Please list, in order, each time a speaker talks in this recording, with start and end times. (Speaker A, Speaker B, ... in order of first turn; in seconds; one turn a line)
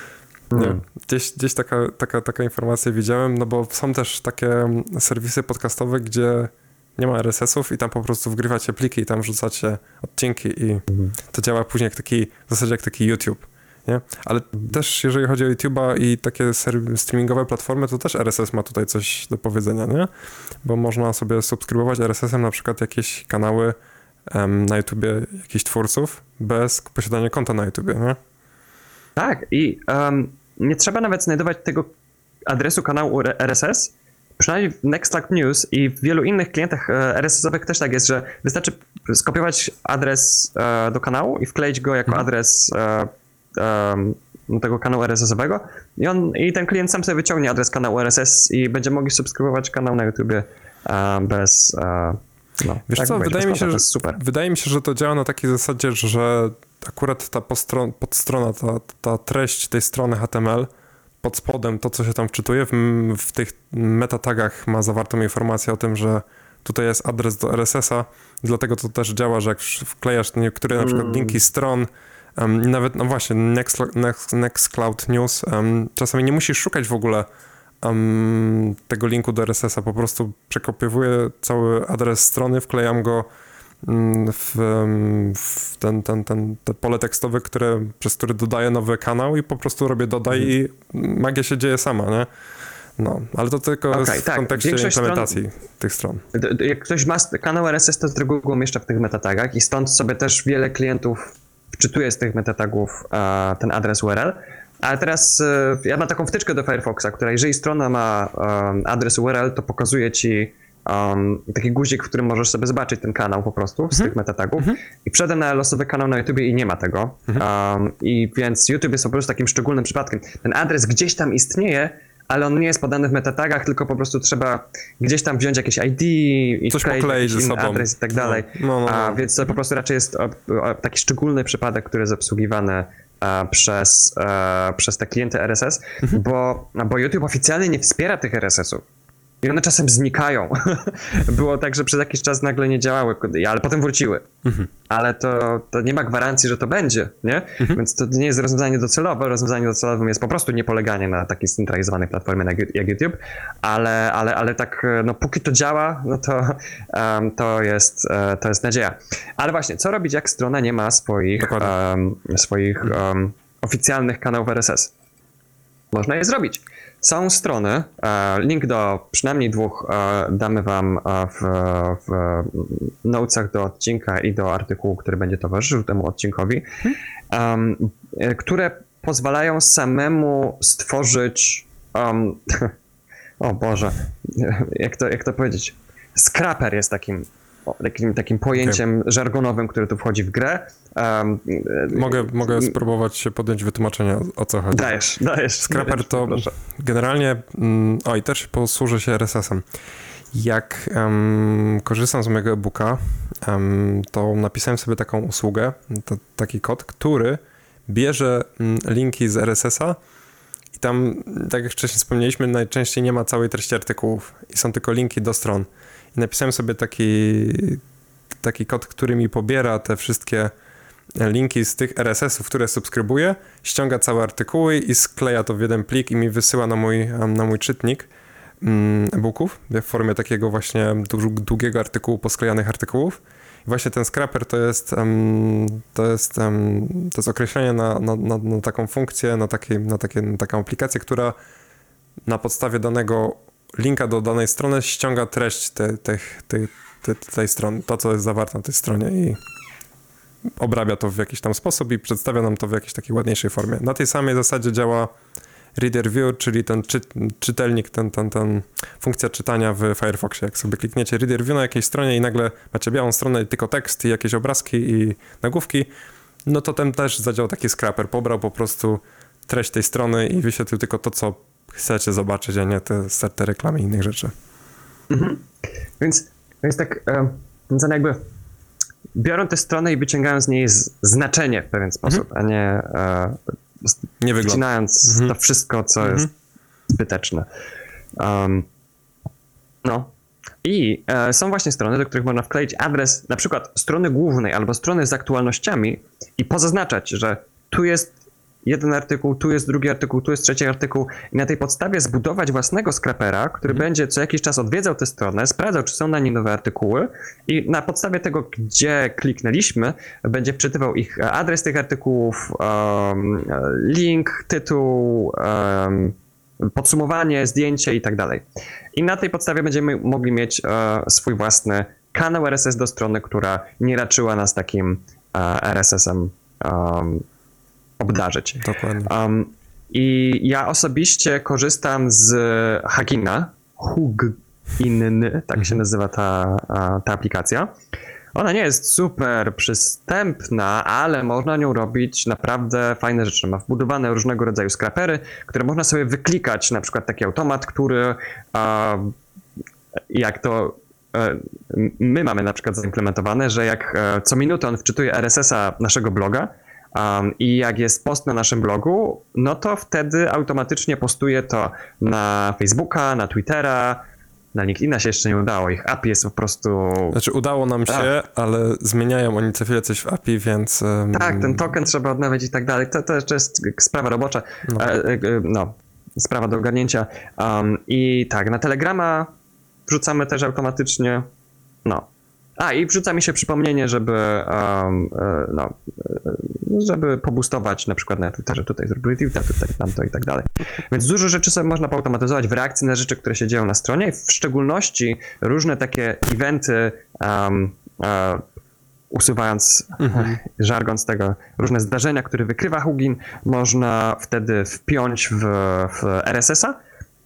Speaker A: 0.5-0.8
Speaker B: 0.6-20.1
Speaker B: 20.6-23.8
Speaker B: 24.3-28.2
Speaker A: 29.1-31.9
Speaker A: 32.5-54.2
Speaker B: 52.9-60.7
Speaker B: 61.2-77.3
Speaker A: 70.8-71.4
Speaker B: 77.8-83.3
Speaker B: 83.8-92.3
Speaker B: 93.0-96.2
Speaker A: 93.9-95.4
Speaker A: 96.3-138.8
Speaker B: 126.7-129.3
Speaker A: 139.4-144.3
Speaker A: 144.9-164.9
Speaker B: 161.4-161.7
Speaker A: 165.9-176.7
Speaker A: 177.3-182.7
Speaker A: 183.4-192.7
Speaker B: 191.9-194.9
Speaker A: 194.7-196.5
Speaker B: 195.6-199.6
Speaker B: 200.3-210.0
Speaker B: 210.7-217.8
Speaker B: 218.4-220.5
Speaker B: 221.2-228.1
Speaker B: 228.6-241.3
Speaker B: 242.2-249.4
Speaker B: 250.6-255.1
Speaker B: 255.8-265.9
Speaker B: 266.4-274.3
Speaker A: 275.1-275.5
Speaker A: 276.0-278.2
Speaker A: 279.1-286.3
Speaker B: 284.2-285.3
Speaker B: 286.0-286.3
Speaker A: 286.9-287.4
Speaker A: 288.2-288.7
Speaker A: 289.8-290.1
Speaker A: 290.6-327.2
Speaker A: 328.0-337.7
Speaker B: 328.6-329.1
Speaker A: 338.3-349.1
Speaker A: 350.1-367.2
Speaker B: 367.1-371.7
Speaker A: 371.1-379.3
Speaker A: 379.9-381.3
Speaker A: 381.8-398.4
Speaker A: 399.1-406.8
Speaker B: 400.0-400.4